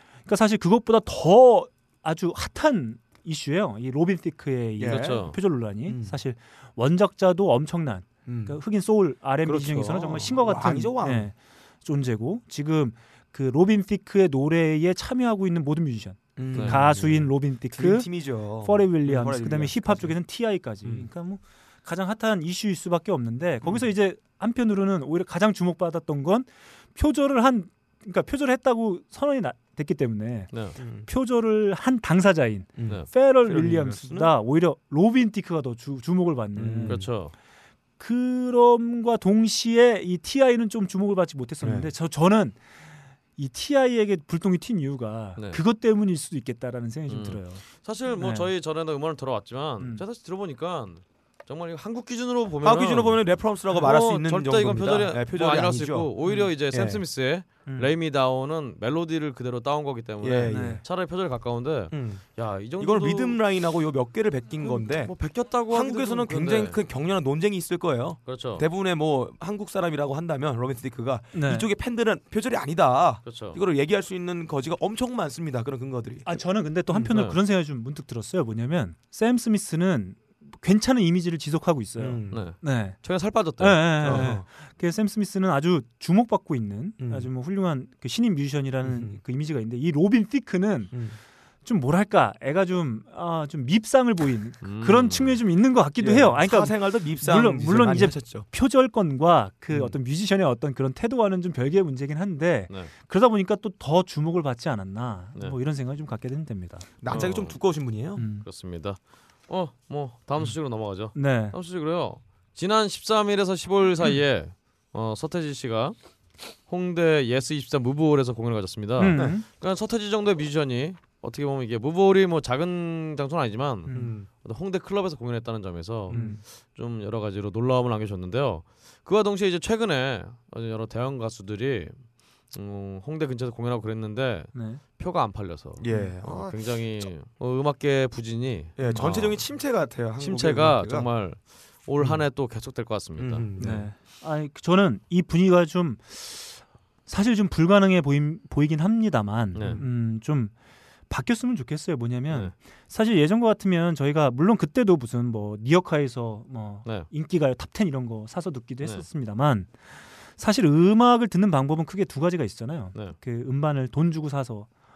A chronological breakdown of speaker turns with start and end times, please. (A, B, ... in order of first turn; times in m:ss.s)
0:00.3-0:30.5 A
0:04.8-0:05.3 B
0:04.8-0:05.4 C
0:05.8-0:06.2 B
0:08.3-0:08.6 B
0:09.4-0:11.3 B
0:16.4-0:20.2 B
0:16.5-0:16.8 C
0:30.8-0:31.1 B
0:31.1-0:37.0 A
0:32.8-0:34.3 B
0:36.6-0:37.1 B
0:36.9-0:37.3 C
0:38.0-0:42.6 A
0:41.6-0:41.9 B
0:43.4-0:48.5 A
0:47.1-1:03.4 C
0:52.6-0:57.0 B
1:00.2-1:00.8 B
1:00.5-1:00.8 A
1:01.9-1:02.3 B
1:02.8-1:05.2 B
1:04.6-1:06.8 C
1:05.7-1:16.3 B
1:08.3-1:08.7 C
1:11.3-1:11.7 A
1:13.2-1:13.6 C
1:16.3-1:23.0 A
1:17.1-1:17.4 C
1:22.0-1:22.4 B
1:22.3-1:24.3 C
1:23.6-1:31.0 A
1:24.0-1:24.4 B
1:27.0-1:27.3 B
1:28.8-1:29.2 B
1:30.9-1:31.2 B
1:31.6-1:46.9 A
1:34.6-1:35.4 C
1:36.0-1:38.5 B
1:39.7-1:40.0 B
1:47.0-1:48.2 B
1:47.1-1:47.6 C
1:48.2-1:48.4 A
1:48.4-1:56.0 C
1:51.1-1:51.6 A
1:56.7-2:12.0 C
1:59.0-1:59.4 A
2:03.9-2:04.1 A
2:03.9-2:04.3 B
2:06.1-2:06.4 B
2:06.1-2:06.4 A
2:12.5-2:19.5 C
2:14.5-2:14.8 A
2:15.8-2:16.6 B
2:18.8-2:21.1 B
2:20.2-2:23.8 C
2:23.2-2:23.9 B
2:23.6-2:30.5 A
2:29.5-2:29.8 C
2:31.1-2:39.8 A
2:40.4-2:44.7 A